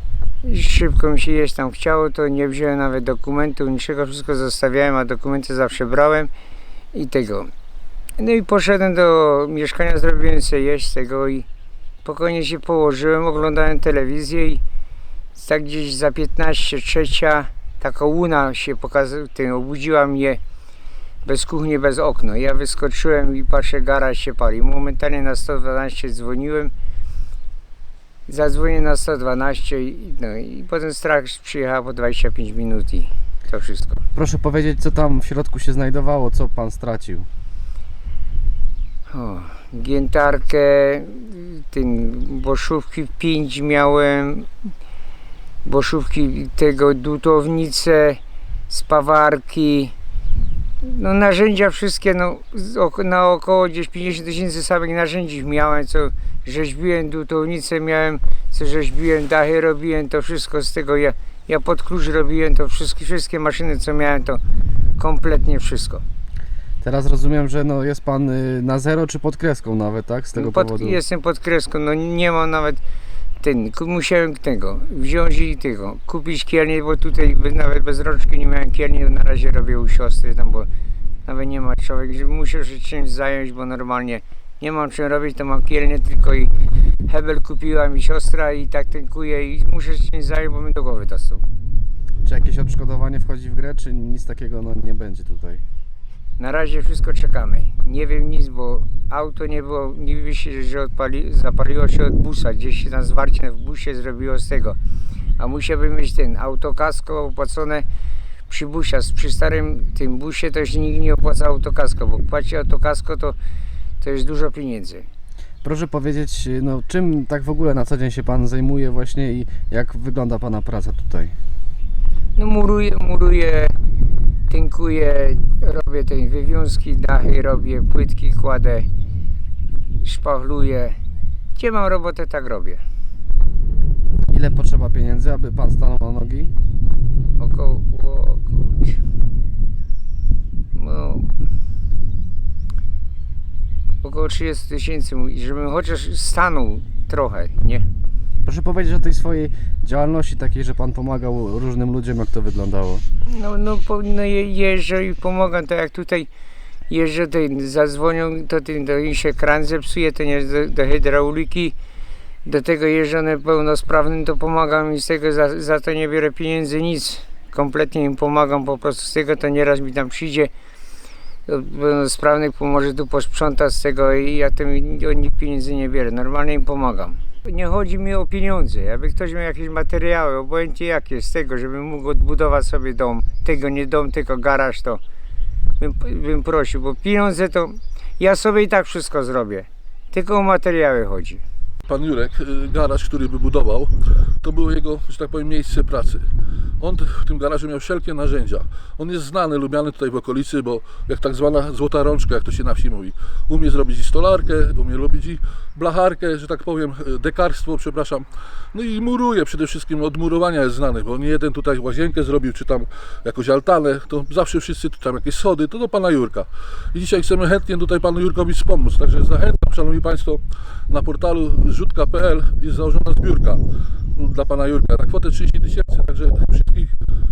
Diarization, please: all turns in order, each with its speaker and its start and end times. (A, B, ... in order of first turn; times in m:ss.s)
0:00.4-0:06.3 A
0:06.9-0:07.5 A
0:08.2-0:11.5 A
0:12.0-0:14.6 A
0:15.3-0:20.4 A
0:21.2-0:26.7 A
0:28.3-0:34.0 A
0:34.2-0:37.3 B
0:39.1-0:44.7 A
0:45.6-0:49.9 A
0:50.8-1:04.4 A
1:05.0-1:06.0 A
1:06.8-1:11.0 B
1:10.3-1:12.8 A
1:13.4-1:20.7 A
1:21.2-1:26.5 A
1:27.0-1:31.5 A
1:32.2-1:35.6 B
1:36.4-1:44.8 A
1:45.4-1:47.8 A
1:48.5-1:53.4 A
1:54.0-1:55.1 A
1:55.6-2:01.3 B
2:02.4-2:03.8 A
2:04.5-2:08.9 A
2:10.0-2:11.0 A
2:11.6-2:12.8 A
2:14.3-2:16.5 B
2:17.4-2:19.0 A
2:20.7-2:21.3 A
2:24.0-2:27.9 A
2:28.5-2:33.0 B
2:33.3-2:36.3 A
2:36.9-2:41.8 A
2:42.4-2:50.5 A
2:51.5-3:05.0 A
3:05.8-3:11.4 A
3:11.9-3:13.9 C
3:14.4-3:16.3 C
3:16.8-3:43.6 C
3:44.2-3:46.9 C